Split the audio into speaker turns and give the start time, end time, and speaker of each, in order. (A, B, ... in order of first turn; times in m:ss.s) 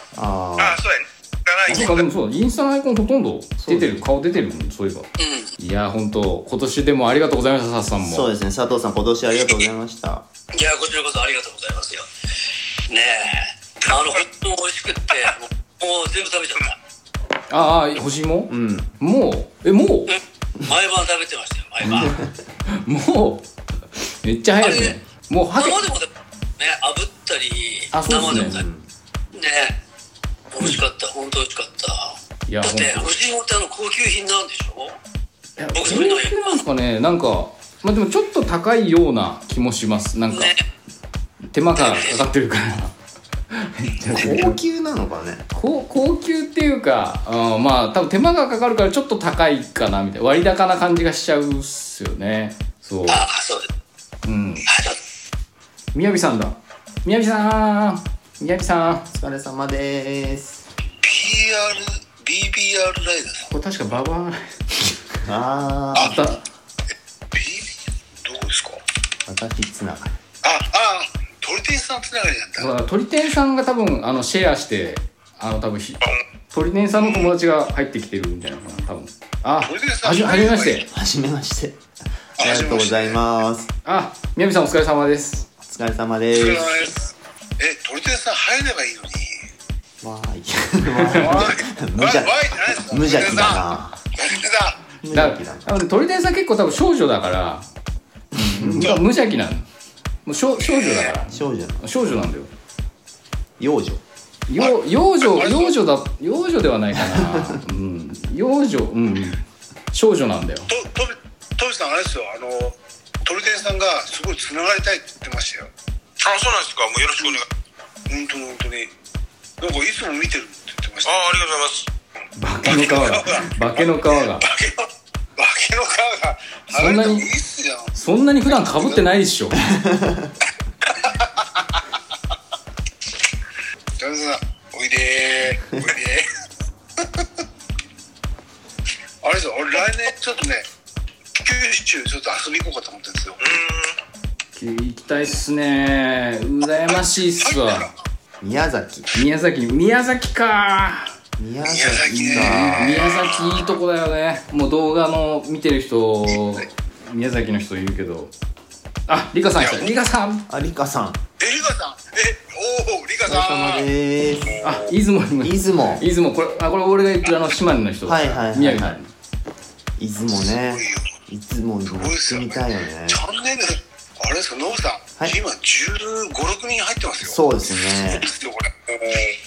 0:00.2-0:00.8 A
0:00.6-0:02.1 B
0:01.7-0:08.3 C
0:03.6-0:04.0 A
0:05.2-0:05.5 D
0:08.0-0:10.2 A
0:10.5-0:12.1 D
0:12.9-0:16.8 D
0:17.5-0:20.1 C
0:18.5-0:18.9 A
0:20.1-0:22.2 D
0:21.8-0:22.1 C
0:21.9-0:22.3 A
0:22.7-0:23.5 C
0:24.2-0:25.8 C
0:24.6-0:25.0 D
0:25.6-0:28.6 D
0:27.9-0:28.6 C
0:28.2-0:28.9 A
0:29.3-0:29.8 D
0:30.5-0:35.0 D
0:32.5-0:33.1 C
0:35.6-0:40.5 C
0:35.8-0:36.6 D
0:40.3-0:40.6 D
0:41.5-0:42.9 C
0:41.8-0:42.2 D
0:43.5-0:44.6 C
0:44.1-0:45.5 A
0:45.5-0:53.3 C
0:53.1-0:53.7 D
0:54.2-0:54.7 C
0:54.7-0:55.0 D
0:55.9-0:59.1 C
0:59.1-1:00.6 A
1:01.0-1:03.5 E
1:03.5-1:04.6 C
1:05.2-1:06.2 A
1:06.0-1:06.4 C
1:07.3-1:08.8 E
1:09.3-1:10.2 A
1:10.4-1:12.8 E
1:12.6-1:20.9 C
1:17.0-1:17.3 E
1:19.6-1:20.9 E
1:20.9-1:21.8 A
1:22.4-1:23.7 A
1:22.4-1:23.2 E
1:23.8-1:25.5 C
1:25.6-1:26.8 A
1:26.3-1:29.5 E
1:30.0-1:34.0 A
1:31.0-1:31.6 C
1:31.2-1:34.8 E
1:35.0-1:35.7 A
1:35.1-1:37.7 C
1:38.3-1:39.0 A
1:38.4-1:39.7 C
1:40.2-1:42.5 C
1:40.6-1:41.1 E
1:41.3-1:41.8 A
1:43.6-1:44.0 A
1:44.5-1:50.7 C
1:44.6-1:45.8 E
1:47.0-1:47.6 A
1:50.7-1:55.7 E
1:56.2-1:57.5 B
1:58.1-1:58.9 E
1:59.6-2:01.3 E
2:01.0-2:01.9 B
2:02.4-2:04.5 C
2:02.7-2:07.9 E
2:06.7-2:07.3 C
2:07.9-2:09.7 C
2:08.5-2:09.0 E
2:09.6-2:10.3 A
2:10.9-2:11.8 E
2:14.0-2:16.3 E
2:17.0-2:17.4 E
2:19.2-2:20.7 E
2:21.3-2:23.5 E
2:23.4-2:24.0 B
2:24.6-2:27.9 C
2:27.4-2:27.9 E
2:28.4-2:29.1 A
2:29.1-2:31.1 C
2:31.4-2:33.1 A
2:31.6-2:33.6 E
2:32.1-2:38.3 C
2:39.1-2:40.5 C
2:40.5-2:41.2 A
2:41.4-2:43.9 E
2:43.3-2:44.7 A
2:44.6-2:49.1 C
2:45.4-2:46.0 A
2:48.0-2:49.0 A
2:50.0-2:53.2 A
2:50.5-2:51.1 E
2:51.9-2:59.4 E
2:57.2-2:58.3 A